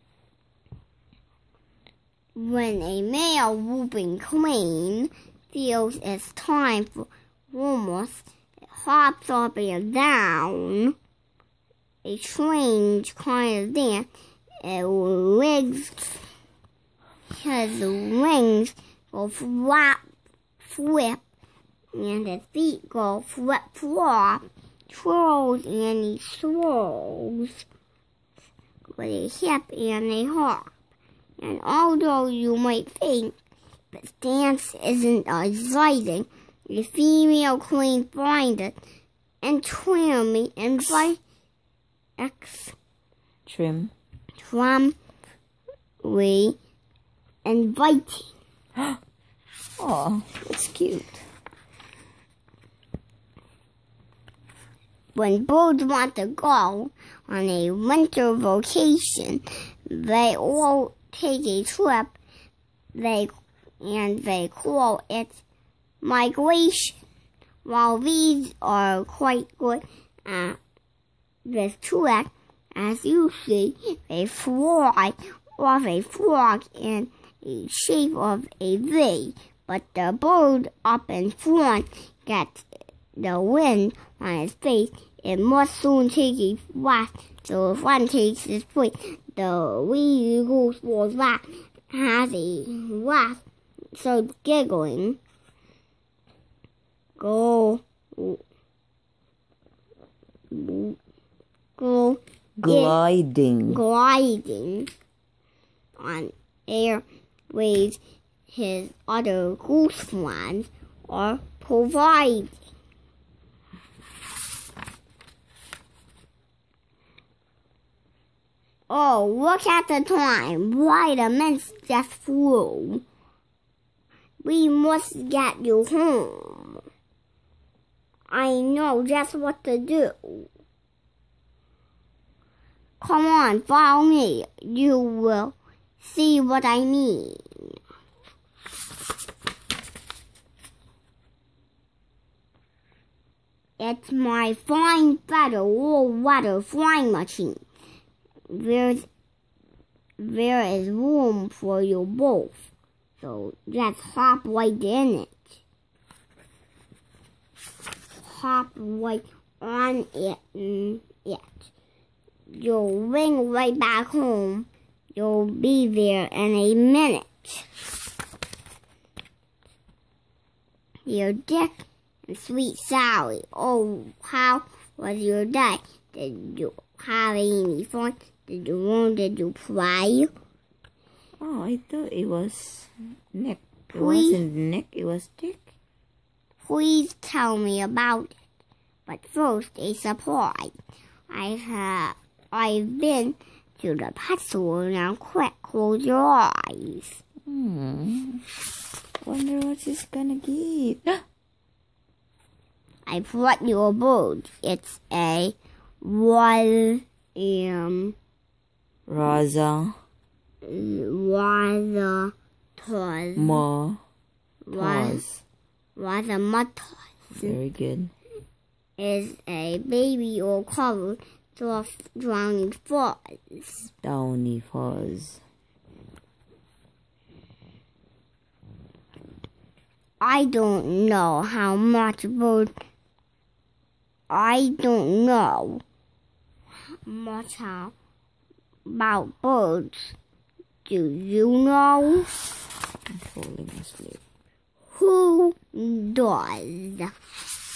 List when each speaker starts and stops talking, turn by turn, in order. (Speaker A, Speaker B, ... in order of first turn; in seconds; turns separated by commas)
Speaker A: 2.4-10.9, Speaker A: 12.0-14.1, Speaker A: 14.6-16.2, Speaker A: 17.3-20.0, Speaker A: 20.6-21.2, Speaker A: 21.9-27.6, Speaker A: 28.9-30.7, Speaker A: 31.4-33.3, Speaker A: 33.9-38.7, Speaker A: 39.4-41.2, Speaker A: 42.2-42.8, Speaker B: 43.5-43.9, Speaker A: 44.4-44.9, Speaker A: 46.0-46.6, Speaker A: 47.4-48.3, Speaker B: 49.8-51.2, Speaker A: 55.1-62.2, Speaker A: 62.9-65.4, Speaker A: 66.0-67.0, Speaker A: 67.6-70.6, Speaker A: 71.4-93.4, Speaker A: 93.9-95.2, Speaker A: 97.2-98.4, Speaker A: 100.5-101.0, Speaker A: 101.8-103.0, Speaker B: 102.6-103.8, Speaker A: 103.7-104.9, Speaker A: 106.0-112.5, Speaker A: 118.9-123.0, Speaker A: 124.4-126.8, Speaker A: 128.3-130.5, Speaker A: 133.0-137.7, Speaker A: 143.8-147.6, Speaker A: 148.5-149.1, Speaker A: 150.2-155.6, Speaker A: 158.2-161.7, Speaker A: 162.5-167.7, Speaker A: 171.1-180.3, Speaker B: 181.4-185.7, Speaker A: 183.9-184.4, Speaker A: 186.6-188.3, Speaker A: 189.1-190.7, Speaker A: 191.3-197.2, Speaker B: 197.5-198.4, Speaker B: 199.2-201.2, Speaker A: 203.1-208.2, Speaker B: 209.1-209.9, Speaker A: 210.6-213.6, Speaker B: 213.3-214.0, Speaker A: 214.7-215.2, Speaker B: 214.7-215.4, Speaker A: 215.9-217.6, Speaker B: 217.3-218.1, Speaker A: 219.0-223.9, Speaker B: 224.0-225.4, Speaker A: 230.2-232.7, Speaker A: 234.3-235.8, Speaker A: 237.0-237.9, Speaker A: 238.9-240.1, Speaker A: 240.8-242.3, Speaker B: 243.1-244.2, Speaker A: 244.9-247.1